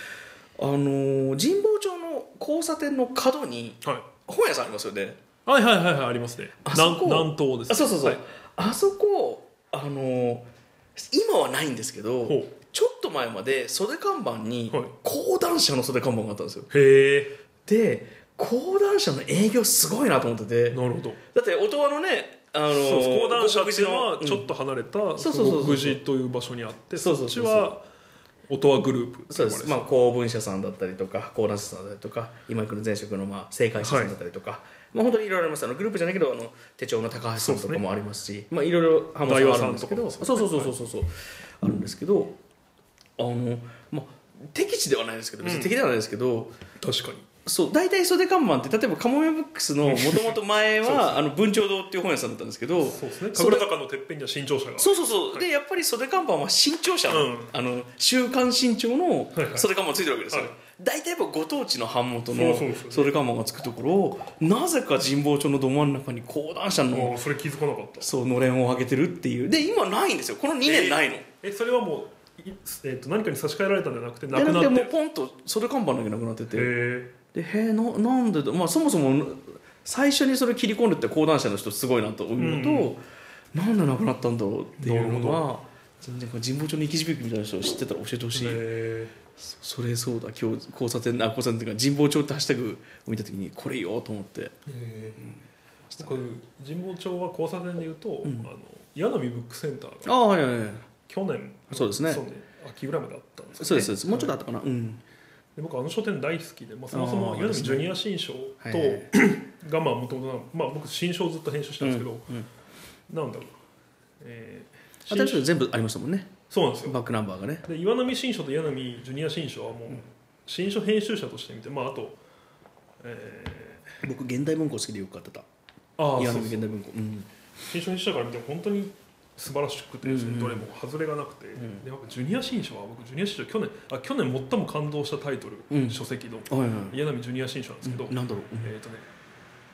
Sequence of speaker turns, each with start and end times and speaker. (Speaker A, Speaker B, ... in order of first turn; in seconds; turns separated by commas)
Speaker A: 0.6-5.2, Speaker B: 5.5-8.2, Speaker A: 6.6-16.7, Speaker B: 12.2-12.5, Speaker B: 16.7-17.3, Speaker A: 17.6-20.8, Speaker B: 20.7-21.2, Speaker A: 21.3-24.5, Speaker B: 22.7-27.9, Speaker A: 25.2-26.0, Speaker A: 26.9-27.7, Speaker B: 28.5-29.9, Speaker A: 29.3-42.4, Speaker B: 33.8-34.1, Speaker B: 37.4-37.8, Speaker B: 39.2-40.8, Speaker A: 43.2-46.5, Speaker B: 45.4-45.8, Speaker B: 46.8-47.3, Speaker A: 47.5-53.7, Speaker B: 49.8-51.2, Speaker B: 52.8-55.4, Speaker A: 54.8-67.2, Speaker B: 57.1-57.5, Speaker B: 59.3-59.7, Speaker B: 62.3-63.2, Speaker B: 66.9-68.1, Speaker A: 68.0-71.3, Speaker B: 70.6-74.9, Speaker A: 74.3-76.7, Speaker B: 76.5-77.1, Speaker A: 77.3-83.0, Speaker B: 82.4-82.9, Speaker A: 83.5-88.6, Speaker B: 84.8-85.4, Speaker B: 88.3-89.1, Speaker A: 89.4-94.5, Speaker B: 94.7-95.3, Speaker B: 96.0-100.1, Speaker A: 98.2-98.5, Speaker A: 100.0-100.9, Speaker B: 101.1-104.3, Speaker A: 101.7-102.2, Speaker A: 103.6-105.0, Speaker B: 105.5-112.3, Speaker A: 106.9-107.9, Speaker A: 108.6-109.1, Speaker A: 111.8-112.5, Speaker B: 113.1-113.6, Speaker B: 114.2-115.5, Speaker A: 115.0-117.7, Speaker B: 116.5-117.0, Speaker B: 117.6-122.2, Speaker B: 123.0-123.9, Speaker A: 124.0-125.4, Speaker B: 126.0-126.7, Speaker A: 126.2-127.3, Speaker B: 127.7-139.1, Speaker A: 130.1-130.7, Speaker A: 131.6-131.8, Speaker A: 135.7-137.0, Speaker A: 137.8-138.7